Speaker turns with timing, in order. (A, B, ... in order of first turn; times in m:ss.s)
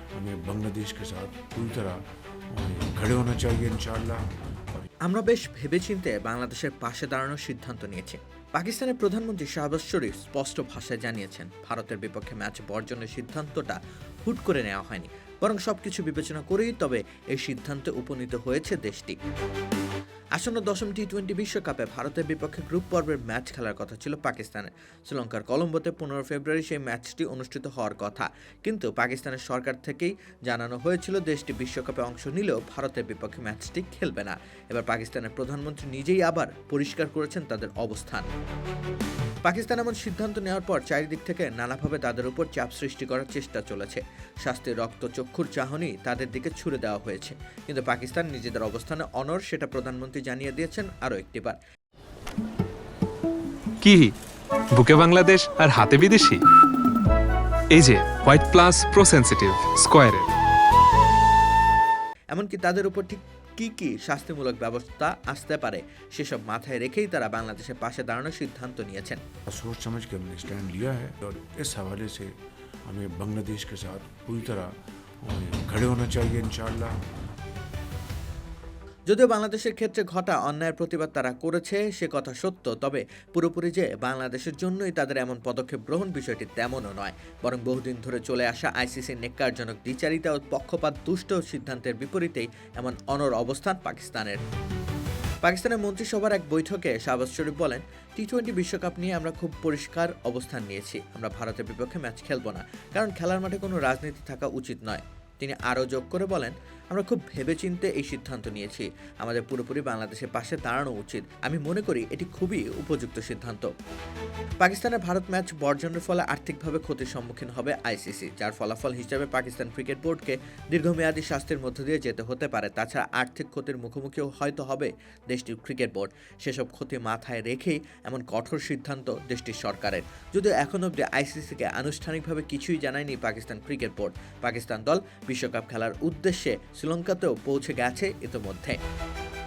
0:00.1-0:04.9 A
0:05.0-0:19.2 B
0:20.4-0:38.2 B
0:39.4-0:51.6 B
0:53.8-0:54.1 C
0:54.7-0:56.4 C
0:57.7-1:00.3 C
1:02.3-1:09.2 B
1:09.5-1:12.3 A
1:12.8-1:17.0 A
1:19.1-1:34.4 B
1:35.4-1:53.7 B
1:54.6-2:18.8 B